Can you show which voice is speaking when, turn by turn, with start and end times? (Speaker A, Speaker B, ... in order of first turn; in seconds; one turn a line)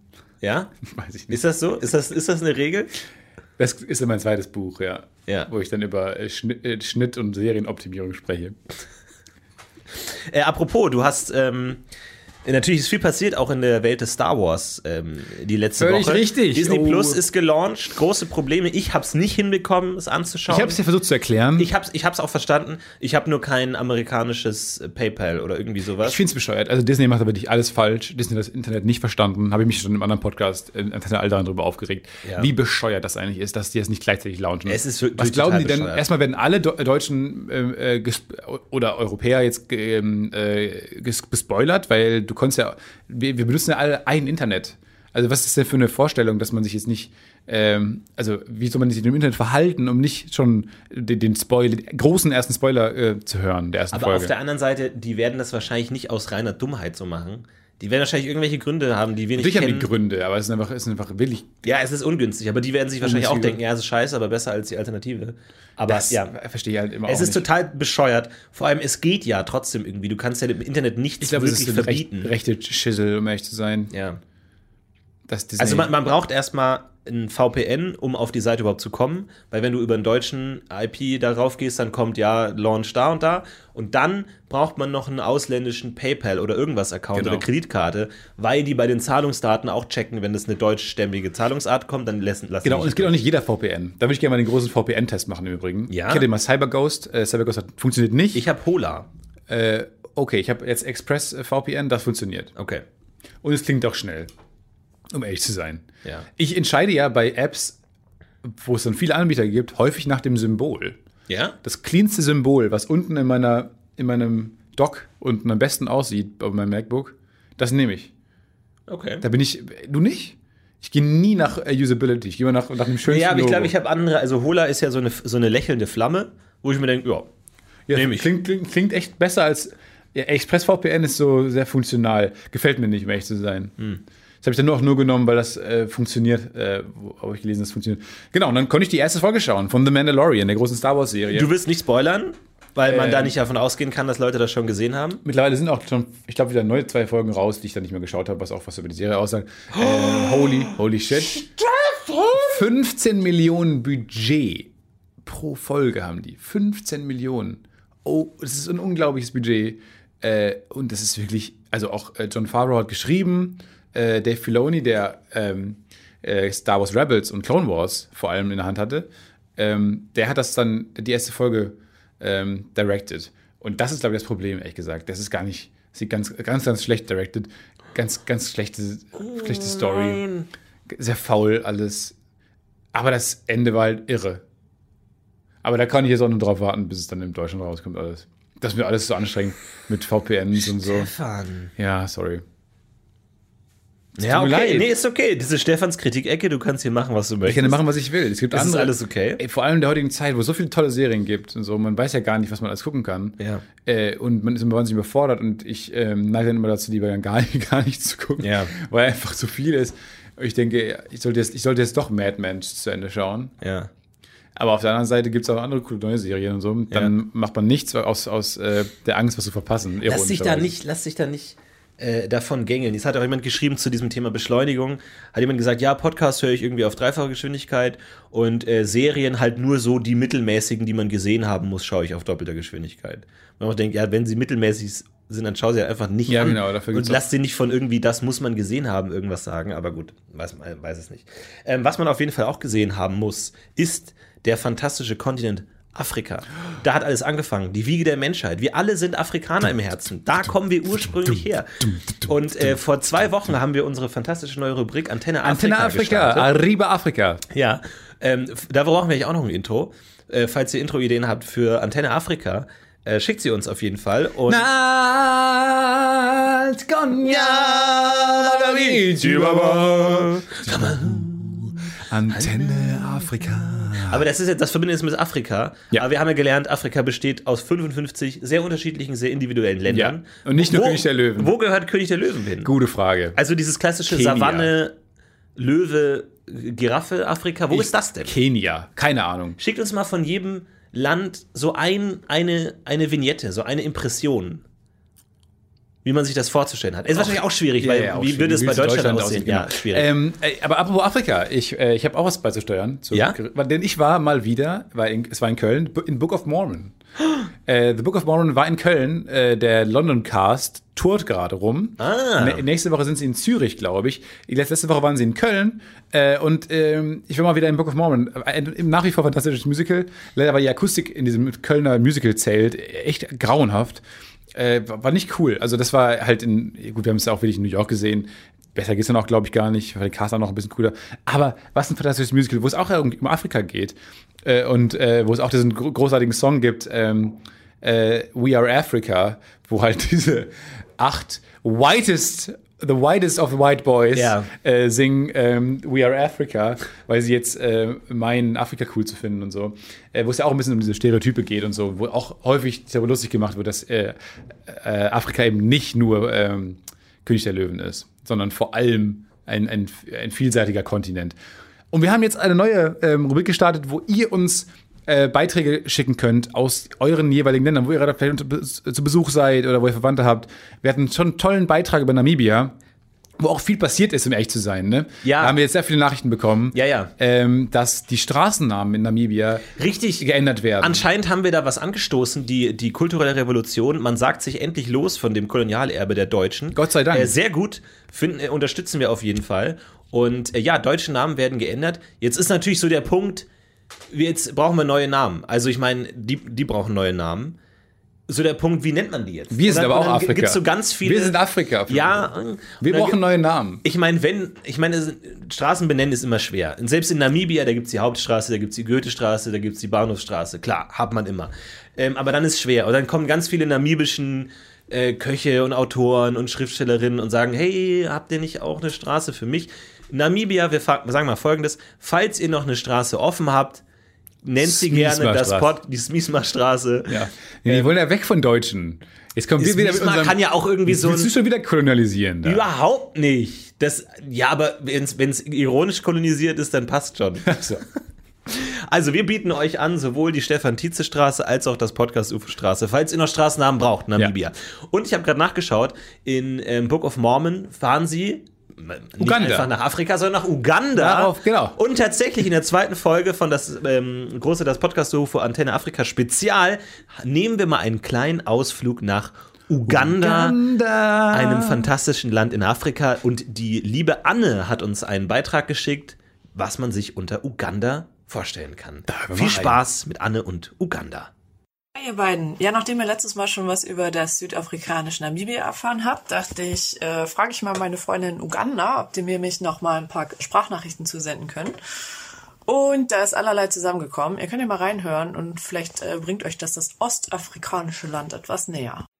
Speaker A: 0.4-0.7
Speaker B: 0.8-1.4
Speaker A: 1.3-2.9
Speaker B: 3.6-8.6
Speaker A: 10.3-11.8
Speaker A: 12.4-20.8
Speaker B: 15.8-17.2
Speaker B: 20.5-21.7
Speaker A: 21.6-26.2
Speaker B: 26.0-54.3
Speaker A: 32.2-32.5
Speaker A: 34.7-36.0
Speaker A: 53.9-59.9
Speaker B: 59.4-61.5
Speaker A: 61.6-66.3
Speaker B: 63.0-63.6
Speaker B: 65.9-67.5
Speaker A: 67.0-72.3
Speaker B: 71.2-73.9
Speaker A: 73.9-74.2
Speaker B: 75.3-75.9
Speaker A: 75.6-93.1
Speaker B: 87.1-87.5
Speaker B: 92.6-98.5
Speaker A: 95.9-96.2
Speaker A: 98.3-99.1
Speaker B: 99.5-102.5
Speaker A: 102.5-102.8
Speaker B: 103.4-104.3
Speaker B: 105.1-107.8
Speaker B: 108.4-111.0
Speaker A: 111.3-111.6
Speaker B: 111.6-118.1
Speaker A: 118.9-119.2
Speaker B: 119.2-123.7
Speaker A: 123.0-127.3
Speaker B: 127.9-133.7
Speaker A: 127.9-128.3
Speaker B: 134.4-141.5
Speaker A: 141.3-145.2
Speaker B: 142.8-143.3
Speaker B: 145.2-151.4
Speaker A: 149.8-150.7
Speaker A: 151.4-152.5
Speaker B: 152.4-154.7
Speaker B: 155.2-180.2
Speaker A: 179.3-180.5
Speaker B: 180.9-182.1
Speaker B: 182.9-184.4
Speaker B: 185.6-191.1
Speaker A: 190.6-191.7
Speaker B: 191.8-192.4
Speaker A: 194.2-197.8
Speaker B: 194.2-194.9
Speaker B: 197.4-213.5
Speaker A: 198.5-199.4
Speaker A: 203.4-203.6
Speaker A: 208.4-208.7
Speaker A: 213.6-213.9
Speaker B: 214.6-220.7
Speaker A: 220.0-251.7
Speaker B: 236.3-237.2
Speaker B: 250.4-253.5
Speaker A: 252.2-256.5
Speaker B: 255.4-257.4
Speaker A: 257.5-264.6
Speaker B: 264.5-274.2
Speaker A: 267.2-271.7
Speaker A: 272.3-282.7
Speaker B: 279.9-281.5
Speaker B: 282.6-283.4
Speaker A: 283.3-284.9
Speaker B: 284.1-284.7
Speaker A: 285.6-288.3
Speaker B: 287.7-289.6
Speaker A: 289.6-294.6
Speaker A: 296.0-300.1
Speaker B: 297.1-306.9
Speaker B: 307.6-324.0
Speaker A: 312.0-312.6
Speaker B: 324.5-361.4
Speaker A: 344.1-344.5
Speaker B: 361.9-372.7
Speaker B: 373.4-379.6
Speaker A: 375.2-375.6
Speaker A: 376.7-377.1
Speaker A: 379.8-380.2
Speaker B: 380.2-381.0
Speaker A: 380.8-393.4
Speaker B: 386.7-387.3
Speaker A: 394.1-397.6
Speaker A: 398.3-401.4
Speaker B: 399.5-403.8
Speaker A: 401.9-403.2
Speaker A: 403.8-423.8
Speaker A: 424.4-427.9
Speaker B: 424.6-425.7
Speaker B: 427.1-432.6
Speaker A: 429.6-431.3
Speaker A: 432.4-437.5
Speaker B: 437.4-437.8
Speaker A: 438.5-460.6
Speaker B: 449.2-449.7
Speaker B: 450.9-451.8
Speaker B: 459.9-461.9
Speaker A: 461.3-471.3
Speaker B: 469.1-469.8
Speaker C: 471.9-481.7
Speaker C: 482.7-489.0